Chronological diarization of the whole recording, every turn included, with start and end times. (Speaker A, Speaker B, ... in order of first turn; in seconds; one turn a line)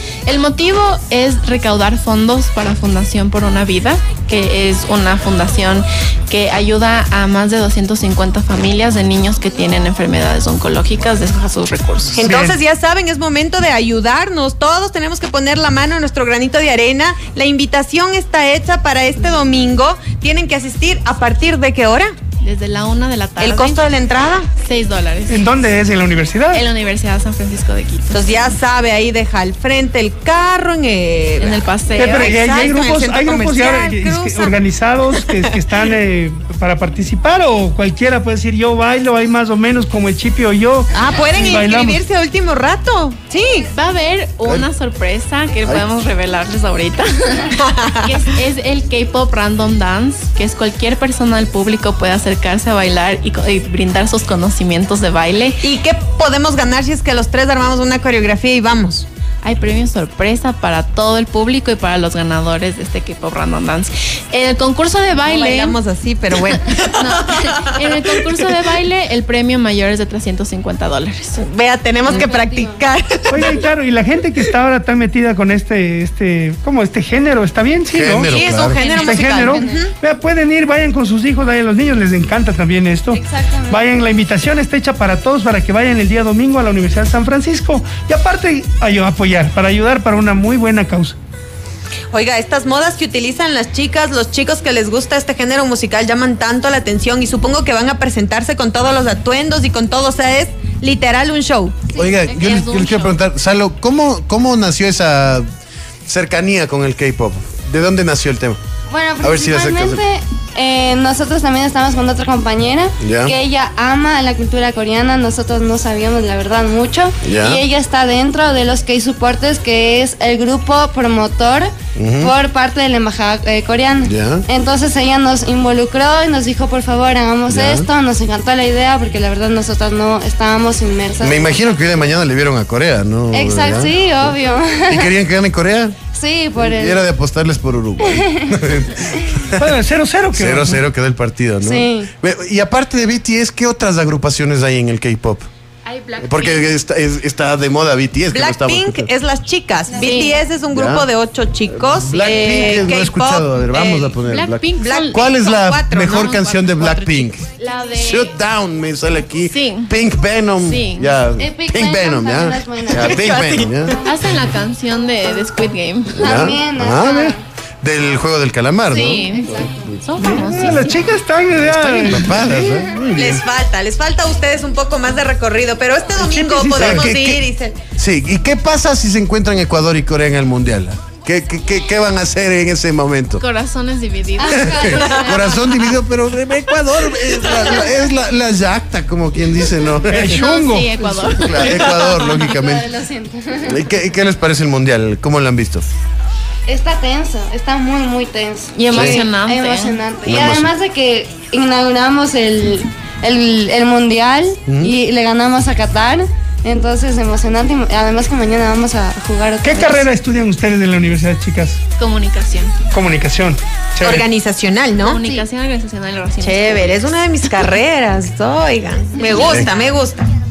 Speaker A: 0.3-12.2
Speaker B: 12.1-22.2
Speaker C: 12.2-12.6
Speaker A: 22.4-23.8
Speaker B: 23.4-24.5
Speaker A: 24.6-25.4
Speaker C: 25.3-26.6
Speaker A: 26.5-28.5
Speaker B: 28.1-34.5
Speaker A: 31.4-32.6
Speaker C: 32.0-42.0
Speaker B: 40.9-43.7
Speaker A: 43.7-47.5
Speaker B: 47.6-48.2
Speaker A: 48.0-55.6
Speaker B: 55.6-59.1
Speaker A: 59.4-65.8
Speaker B: 65.2-68.4
Speaker A: 66.5-71.4
Speaker B: 71.4-73.6
Speaker A: 72.1-72.8
Speaker C: 73.3-78.3
Speaker D: 77.9-78.8
Speaker B: 78.2-79.9
Speaker C: 79.0-91.2
Speaker B: 83.1-83.8
Speaker B: 92.1-101.9
Speaker D: 102.0-105.5
Speaker A: 102.1-103.2
Speaker D: 106.1-108.6
Speaker E: 108.9-131.5
Speaker D: 109.2-110.0
Speaker D: 113.0-113.3
Speaker D: 117.2-117.6
Speaker D: 122.0-122.3
Speaker D: 124.0-124.5
Speaker D: 127.5-127.9
Speaker D: 131.2-134.1
Speaker E: 133.3-135.1
Speaker D: 134.9-136.0
Speaker E: 136.1-137.0
Speaker D: 136.6-139.7
Speaker E: 138.1-138.4
Speaker C: 139.6-140.8
Speaker D: 140.3-145.5
Speaker E: 141.6-142.1
Speaker A: 145.9-146.5
Speaker D: 146.2-149.1
Speaker B: 148.3-154.2
Speaker A: 149.9-150.4
Speaker D: 150.8-151.1
Speaker D: 151.7-157.5
Speaker A: 154.3-155.3
Speaker B: 154.8-157.0
Speaker A: 156.2-158.3
Speaker D: 158.0-164.0
Speaker A: 159.5-159.9
Speaker A: 160.6-161.1
Speaker E: 161.4-163.6
Speaker B: 163.1-163.4
Speaker A: 164.0-166.2
Speaker D: 166.1-169.2
Speaker E: 166.2-167.4
Speaker E: 168.9-169.7
Speaker A: 168.9-171.1
Speaker C: 170.2-172.7
Speaker D: 171.7-173.4
Speaker B: 173.2-177.8
Speaker C: 176.2-177.1
Speaker D: 176.8-177.4
Speaker D: 178.0-183.4
Speaker A: 183.4-185.7
Speaker D: 184.5-190.4
Speaker B: 185.0-185.3
Speaker C: 190.1-190.9
Speaker A: 190.1-192.5
Speaker D: 191.2-192.9
Speaker E: 192.3-193.8
Speaker D: 193.7-195.9
Speaker E: 196.7-210.1
Speaker A: 198.7-200.0
Speaker D: 198.9-199.3
Speaker D: 200.2-200.7
Speaker D: 204.7-204.9
Speaker C: 209.6-211.8
Speaker A: 212.0-212.8
Speaker C: 212.9-214.3
Speaker B: 214.0-215.4
Speaker A: 215.0-217.1
Speaker B: 216.4-220.2
Speaker A: 219.2-219.6